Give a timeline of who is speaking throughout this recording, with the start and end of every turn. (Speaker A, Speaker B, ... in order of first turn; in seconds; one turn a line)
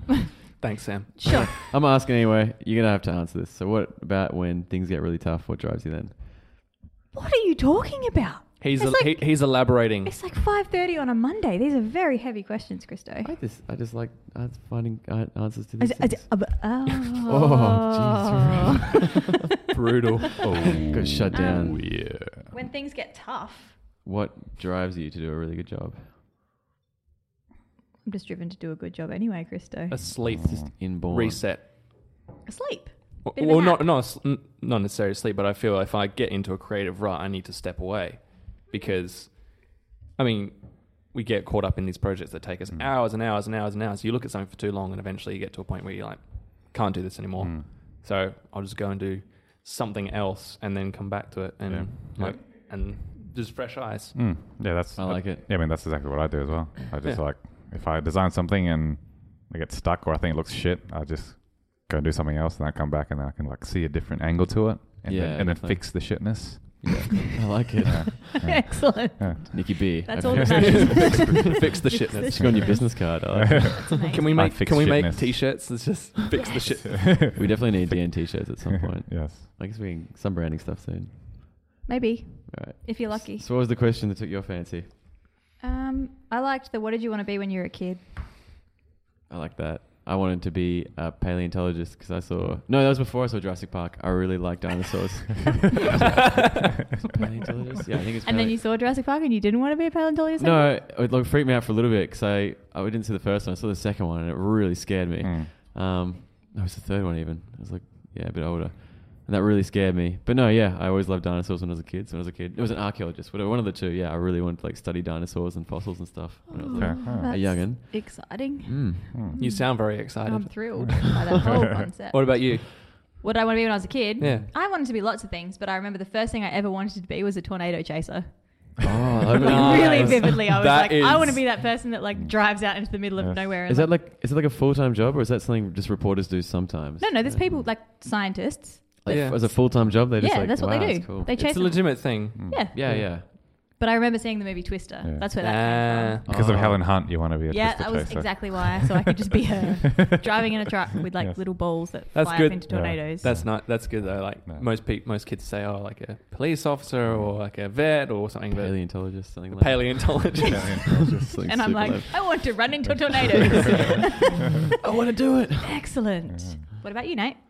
Speaker A: 0.6-1.6
Speaker B: 1.2-1.5
Speaker C: 1.3-6.2
Speaker B: 7.1-13.3
Speaker A: 8.6-10.1
Speaker C: 13.2-18.8
Speaker B: 15.8-18.5
Speaker A: 19.7-20.5
Speaker D: 20.4-22.5
Speaker C: 20.9-21.9
Speaker B: 21.3-23.8
Speaker C: 24.0-26.1
Speaker B: 28.0-30.0
Speaker A: 29.9-31.7
Speaker D: 30.2-30.7
Speaker C: 30.4-31.4
Speaker B: 32.4-33.9
Speaker A: 33.2-54.3
Speaker D: 47.4-47.7
Speaker D: 51.6-52.4
Speaker D: 54.1-67.2
Speaker C: 54.9-55.5
Speaker C: 65.0-68.7
Speaker D: 67.8-71.3
Speaker B: 68.4-74.3
Speaker C: 69.5-71.6
Speaker A: 70.5-72.9
Speaker C: 72.2-73.9
Speaker D: 73.3-75.5
Speaker A: 74.0-77.2
Speaker B: 76.3-76.6
Speaker D: 76.8-79.5
Speaker C: 77.3-81.8
Speaker B: 81.8-83.5
Speaker C: 82.5-84.9
Speaker B: 85.6-88.1
Speaker C: 89.3-96.3
Speaker C: 97.0-98.6
Speaker B: 98.2-100.8
Speaker C: 100.4-119.4
Speaker D: 105.2-105.5
Speaker B: 116.5-133.9
Speaker D: 116.7-117.5
Speaker D: 119.1-119.4
Speaker A: 119.4-121.0
Speaker D: 120.8-121.9
Speaker A: 122.1-122.8
Speaker A: 124.2-124.5
Speaker C: 124.2-124.4
Speaker C: 128.8-130.4
Speaker A: 129.4-131.4
Speaker D: 132.1-133.4
Speaker C: 133.7-137.6
Speaker B: 137.0-146.2
Speaker C: 139.0-141.3
Speaker A: 139.1-139.5
Speaker A: 141.3-143.1
Speaker D: 142.3-142.7
Speaker C: 142.7-143.3
Speaker D: 145.0-145.3
Speaker A: 145.4-146.3
Speaker C: 146.2-147.0
Speaker D: 146.3-148.9
Speaker B: 147.5-153.4
Speaker D: 151.1-151.4
Speaker A: 152.1-161.0
Speaker D: 152.7-154.7
Speaker D: 157.0-157.3
Speaker C: 158.5-162.7
Speaker D: 160.4-161.6
Speaker B: 161.4-164.6
Speaker C: 164.8-166.0
Speaker B: 165.6-167.4
Speaker D: 166.3-166.6